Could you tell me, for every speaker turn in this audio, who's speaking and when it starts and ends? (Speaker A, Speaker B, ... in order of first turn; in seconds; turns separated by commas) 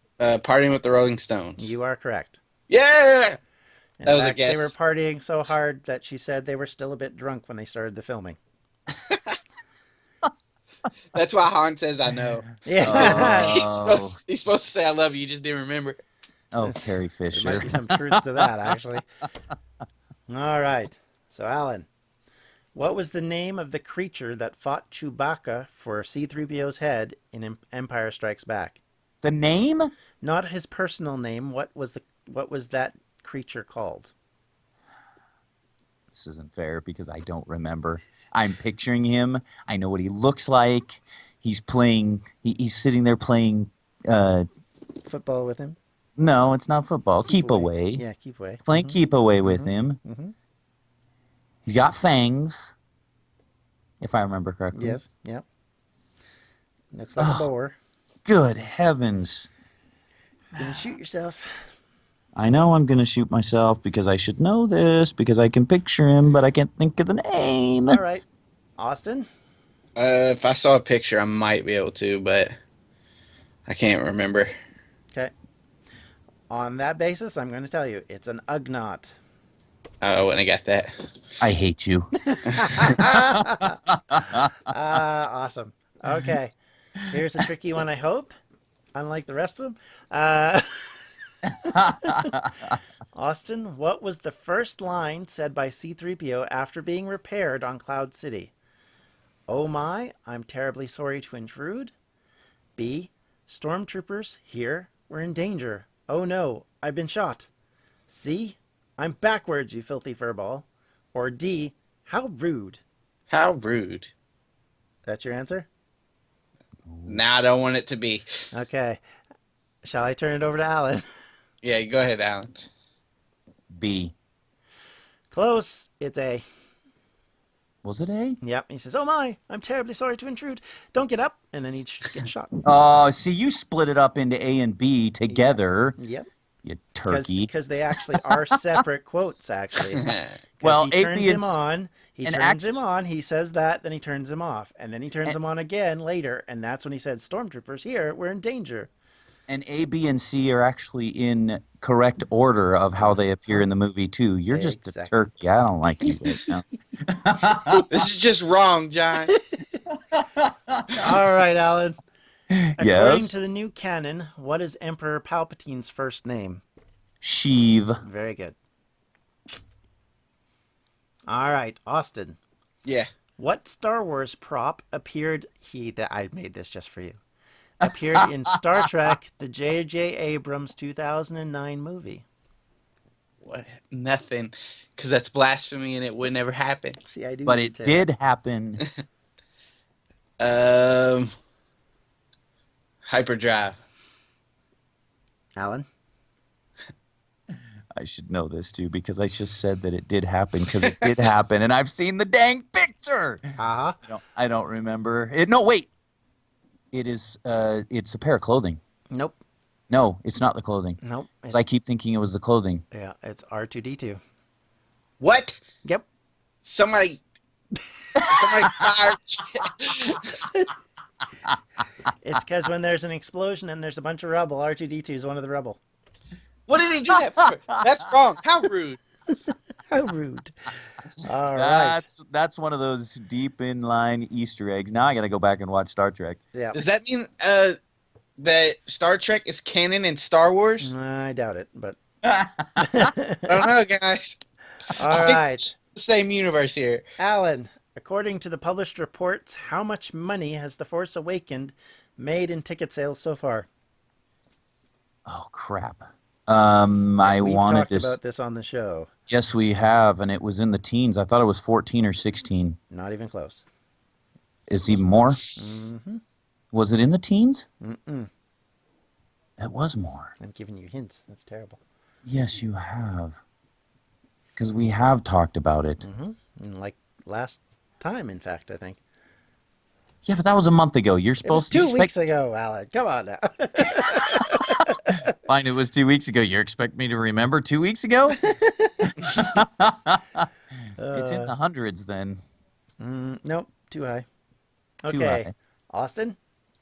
Speaker A: 0.2-1.7, Speaker B: 1.6-2.4, Speaker A: 2.7-3.4, Speaker B: 4.0-8.4, Speaker A: 4.1-4.7, Speaker A: 9.1-9.4, Speaker A: 11.1-16.0, Speaker B: 12.6-13.6, Speaker C: 12.8-14.2, Speaker C: 16.5-17.9, Speaker B: 16.6-19.1, Speaker B: 20.3-21.9, Speaker B: 22.8-28.8, Speaker C: 29.2-29.9, Speaker B: 30.2-34.1, Speaker C: 36.1-44.5, Speaker B: 45.0-45.8, Speaker C: 46.2-48.0, Speaker B: 47.3-50.3, Speaker C: 48.6-50.0, Speaker C: 51.6-52.7, Speaker C: 54.0-55.0, Speaker B: 54.7-55.5, Speaker B: 56.9-57.8, Speaker C: 57.2-57.5, Speaker C: 58.2-59.5, Speaker B: 60.5-61.5, Speaker C: 62.3-68.0, Speaker B: 67.9-68.2, Speaker B: 68.8-69.3, Speaker A: 70.0-72.5, Speaker A: 73.7-74.5, Speaker B: 76.5-79.1, Speaker A: 80.0-80.9, Speaker C: 81.4-82.1, Speaker B: 82.3-83.8, Speaker A: 82.5-82.9, Speaker C: 82.7-84.5, Speaker B: 84.7-86.5, Speaker B: 87.1-88.3, Speaker B: 88.9-90.7, Speaker B: 91.6-92.4, Speaker C: 91.7-92.7, Speaker B: 93.1-98.5, Speaker B: 99.5-101.9, Speaker B: 102.8-107.5, Speaker B: 108.1-112.8, Speaker A: 113.3-114.1, Speaker B: 115.0-115.7, Speaker C: 116.9-117.2, Speaker A: 117.0-118.2, Speaker B: 118.5-119.0, Speaker B: 119.8-121.0, Speaker A: 121.6-122.5, Speaker C: 123.7-124.1, Speaker B: 125.3-126.5, Speaker C: 127.8-128.4, Speaker B: 128.4-132.6, Speaker C: 132.7-136.0, Speaker B: 135.3-136.3, Speaker C: 136.6-137.5, Speaker B: 137.1-148.9, Speaker C: 138.1-138.8, Speaker A: 139.9-140.3, Speaker C: 140.6-141.6, Speaker C: 142.2-142.8, Speaker C: 149.5-157.8, Speaker B: 153.0-153.6, Speaker B: 154.5-155.2, Speaker A: 157.9-159.3, Speaker B: 159.3-159.8, Speaker C: 160.1-161.2, Speaker B: 160.9-162.0, Speaker C: 162.5-163.4, Speaker B: 162.8-166.6, Speaker C: 167.2-168.0, Speaker B: 168.0-168.6, Speaker B: 171.3-172.4, Speaker B: 173.4-177.2, Speaker B: 177.8-182.2, Speaker C: 177.8-178.3, Speaker A: 183.4-187.0, Speaker B: 187.1-188.1, Speaker C: 187.5-188.8, Speaker A: 190.4-191.3, Speaker A: 193.1-193.8, Speaker B: 195.6-195.9, Speaker C: 198.0-203.6, Speaker B: 203.6-204.0, Speaker C: 204.1-205.9, Speaker C: 206.9-208.8, Speaker B: 209.1-209.4, Speaker C: 209.9-212.8, Speaker B: 211.0-211.6, Speaker B: 212.9-214.2, Speaker A: 215.2-215.6, Speaker A: 216.7-217.2, Speaker C: 218.2-218.7, Speaker A: 218.3-220.3, Speaker B: 222.2-225.8, Speaker A: 226.7-229.0, Speaker B: 229.9-230.5, Speaker B: 231.2-232.1, Speaker C: 231.6-236.4, Speaker B: 236.5-236.8, Speaker A: 236.7-237.8, Speaker A: 238.4-240.9, Speaker B: 240.8-242.0, Speaker C: 242.2-243.1, Speaker B: 242.8-243.5, Speaker A: 243.5-244.4, Speaker B: 244.9-245.7, Speaker A: 245.1-247.1, Speaker B: 247.2-253.7, Speaker C: 255.3-258.2, Speaker B: 257.2-259.1, Speaker C: 259.3-262.8, Speaker B: 262.9-263.6, Speaker C: 264.7-265.4, Speaker B: 265.6-266.2, Speaker C: 266.7-267.7, Speaker B: 267.8-268.3, Speaker C: 269.6-270.3, Speaker B: 270.4-271.8, Speaker C: 272.2-273.4, Speaker C: 274.6-276.0, Speaker B: 276.0-279.0, Speaker C: 280.2-282.1, Speaker B: 281.4-285.1, Speaker C: 284.0-288.4, Speaker B: 288.4-289.1, Speaker C: 289.2-290.4, Speaker B: 291.0-291.5, Speaker C: 291.1-292.4, Speaker B: 293.0-294.2, Speaker B: 295.0-296.4, Speaker C: 295.1-295.5